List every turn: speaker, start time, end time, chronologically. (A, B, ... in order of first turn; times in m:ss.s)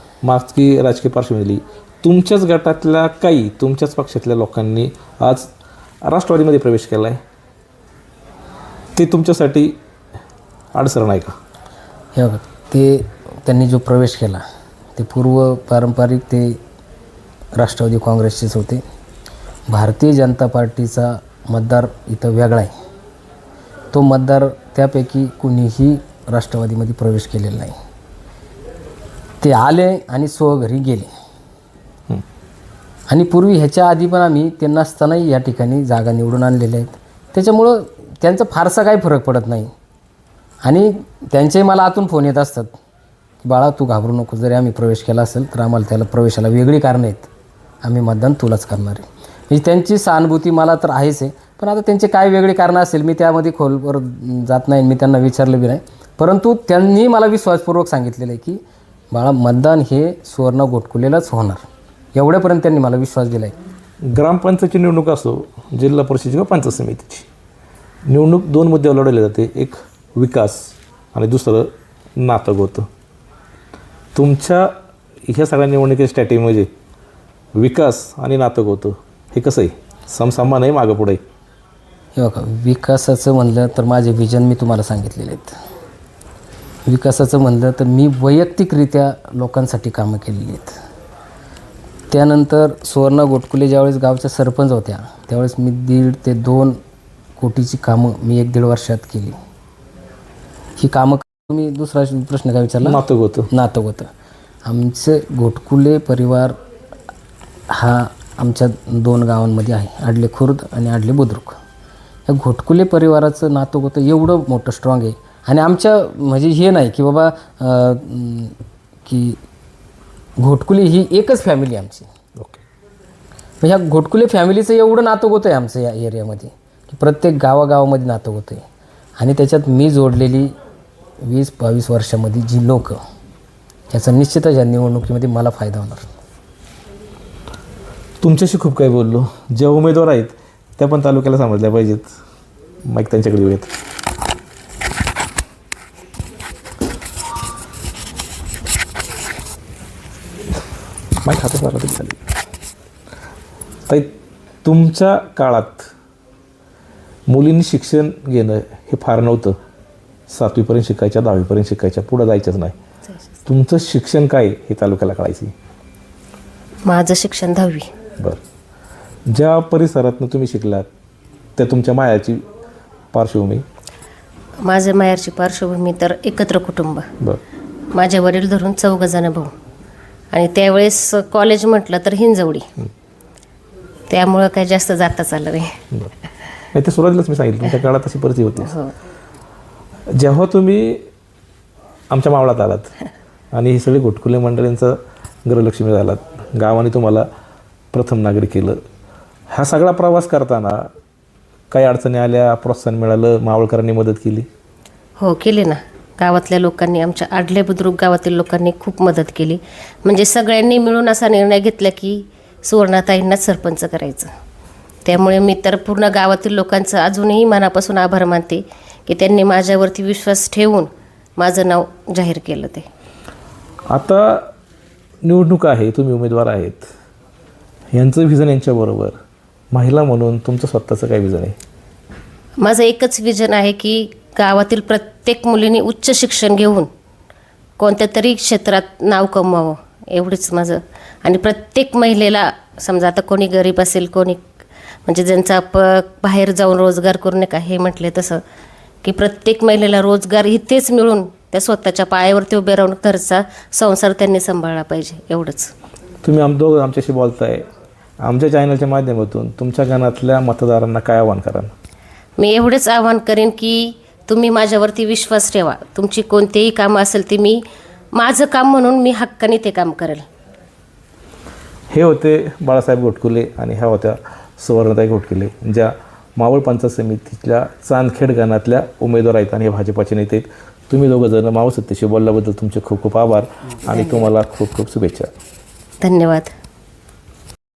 0:00.2-0:05.5 A
0:06.0-0:07.2 A
0:08.9-0:09.8 A
0:10.7-0:11.4 A
0:12.1-0:14.4 B
0:15.0-0:16.6 B
0:17.5-0:18.8 B
0:19.7-0:22.7 B
0:23.9-0:27.8 B
0:29.4-0:31.1 B
0:33.1-0:39.7 B
0:40.6-0:42.7 B
0:43.4-0:47.3 B
0:47.8-1:03.6 B
1:04.0-1:07.3 A
1:08.1-1:12.9 A
1:14.1-1:14.7 A
1:15.3-1:16.7 A
1:17.6-1:21.2 A
1:22.1-1:25.6 B
1:26.8-1:30.8 B
1:32.1-1:36.8 B
1:37.4-1:39.4 B
1:40.8-1:44.1 B
1:42.8-1:43.5 A
1:44.6-1:46.6 B
1:47.7-1:51.6 B
1:52.3-1:59.4 B
2:00.4-2:02.1 B
2:02.4-2:02.6 A
2:03.6-2:08.6 B
2:09.2-2:10.5 B
2:11.2-2:13.0 B
2:13.9-2:16.1 B
2:18.2-2:22.1 A
2:22.8-2:23.7 A
2:31.2-2:32.2 A
2:33.9-2:35.9 A
2:37.3-2:39.6 A
2:40.3-2:42.8 A
2:43.4-2:45.5 A
2:46.8-2:47.9 C
2:49.3-2:50.9 A
2:51.6-2:52.4 A
2:53.1-2:53.6 A
2:54.6-2:57.1 C
2:57.9-2:59.5 C
3:00.3-3:02.7 C
3:04.1-3:05.8 C
3:06.7-3:08.8 A
3:10.1-3:11.1 A
3:12.1-3:12.9 A
3:13.5-3:17.3 A
3:17.9-3:18.8 A
3:19.5-3:20.9 A
3:21.7-3:24.5 A
3:25.2-3:34.3 C
3:35.0-3:42.9 C
3:43.9-3:44.5 A
3:45.2-3:46.9 A
3:47.9-3:49.2 A
3:49.7-3:51.6 A
3:52.6-3:56.9 C
3:57.8-4:04.4 C
4:05.0-4:08.4 C
4:09.0-4:15.7 C
4:16.2-4:17.6 A
4:18.2-4:21.7 A
4:22.4-4:27.6 C
4:28.1-4:30.2 C
4:31.9-4:45.3 A
4:46.0-4:46.5 C